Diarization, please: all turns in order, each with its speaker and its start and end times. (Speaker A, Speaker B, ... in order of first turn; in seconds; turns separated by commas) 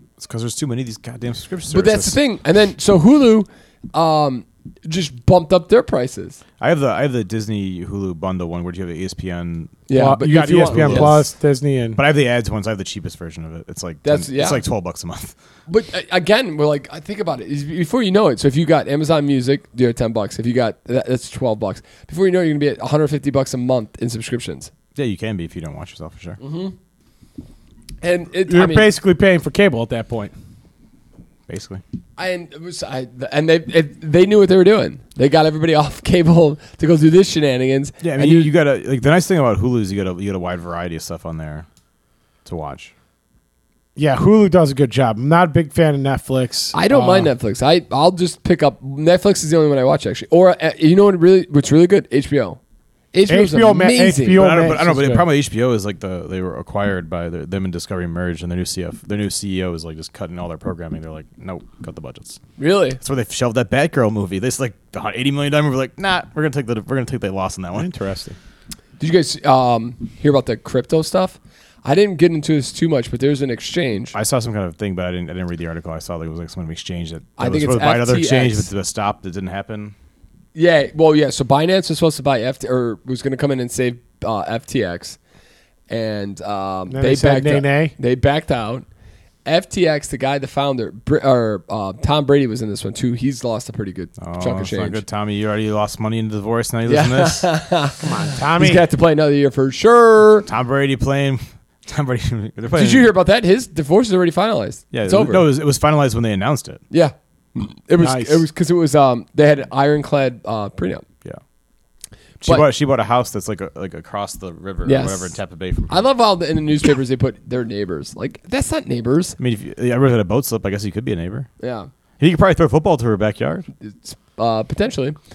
Speaker A: 0.2-2.2, Speaker B: 1.7-6.4, Speaker A: 6.6-9.8, Speaker B: 9.9-11.2, Speaker C: 9.9-12.0, Speaker A: 10.6-11.3, Speaker A: 11.9-15.3, Speaker B: 14.0-14.6, Speaker B: 15.7-24.7, Speaker A: 24.9-26.4, Speaker B: 26.4-26.7, Speaker B: 28.0-28.9, Speaker C: 28.5-30.3, Speaker A: 31.5-31.8, Speaker B: 32.2-38.5, Speaker A: 38.0-41.6, Speaker A: 42.4-42.9, Speaker C: 44.0-47.3, Speaker B: 46.7-52.6, Speaker B: 53.1-54.4, Speaker C: 53.3-55.2, Speaker A: 54.3-62.4, Speaker B: 62.6-63.0, Speaker A: 63.0-68.0, Speaker C: 67.8-68.3, Speaker B: 69.0-74.1, Speaker A: 74.1-79.9, Speaker B: 77.4-78.7, Speaker B: 80.5-85.2, Speaker B: 85.9-88.8, Speaker C: 86.9-87.9, Speaker B: 89.5-95.0, Speaker A: 94.2-97.5, Speaker B: 96.9-100.5, Speaker C: 98.0-98.8, Speaker A: 100.5-103.1, Speaker B: 102.7-105.4, Speaker A: 104.9-106.8, Speaker B: 106.9-111.0, Speaker C: 108.0-108.4, Speaker A: 112.4-116.1, Speaker B: 114.8-115.3, Speaker B: 115.9-119.4, Speaker A: 119.4-121.5, Speaker B: 121.6-121.9, Speaker A: 122.2-123.7, Speaker B: 123.8-125.2